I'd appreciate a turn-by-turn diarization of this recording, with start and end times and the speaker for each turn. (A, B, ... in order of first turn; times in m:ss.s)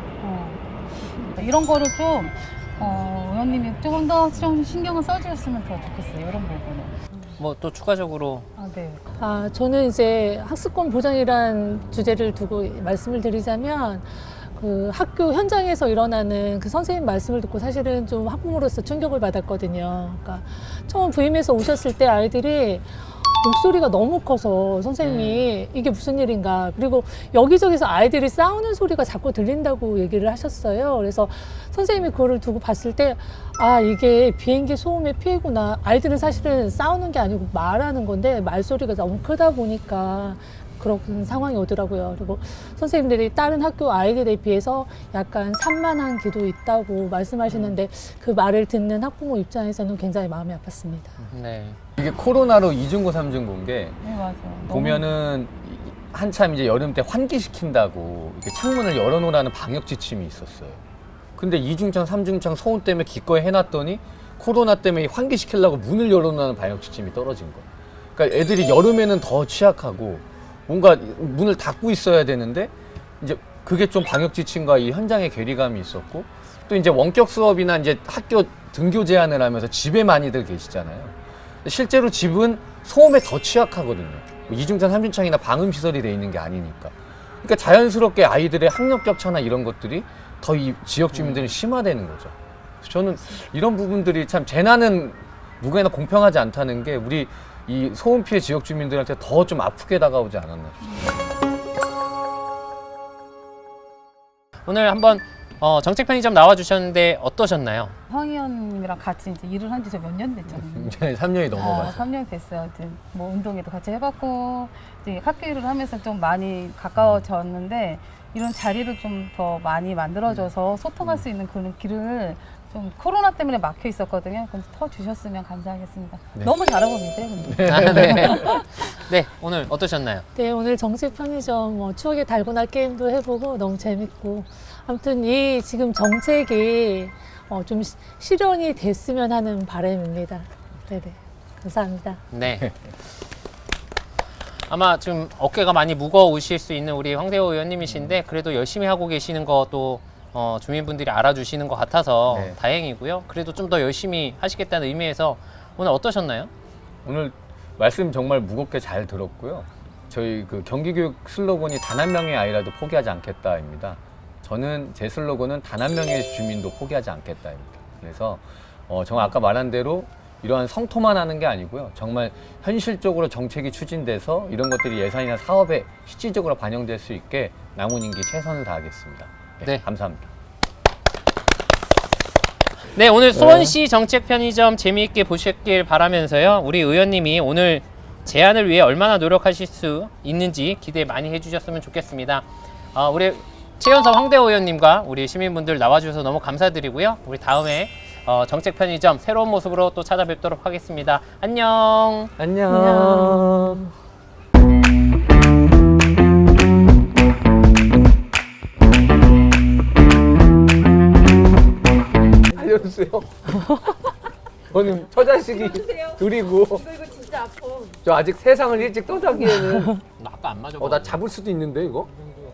0:00.2-0:07.0 A
0:07.4-0:08.5 B
0:08.6-0:09.0 A
0:09.2-0:51.2 C
0:25.0-0:25.5 B
0:47.5-0:47.8 B
0:51.3-0:51.8 B
0:52.0-0:54.0 D
0:54.0-0:55.1 A
0:54.6-1:00.8 D
1:01.4-1:40.8 D
1:31.1-1:31.6 B
1:44.6-1:48.0 B
1:48.1-1:51.0 A
1:50.5-1:52.0 D
1:51.5-2:08.4 A
2:07.4-2:08.5 D
2:07.6-2:10.2 B
2:10.3-2:22.2 C
2:22.3-2:22.7 B
2:24.7-2:36.5 B
2:32.3-2:32.6 D
2:37.0-3:00.3 D
3:02.9-3:22.3 B
3:03.3-3:03.7 D
3:22.4-3:23.9 D
3:22.7-3:23.8 C
3:32.5-3:33.9 D
3:34.7-3:40.0 D
3:40.2-3:41.2 B
3:40.8-3:42.1 D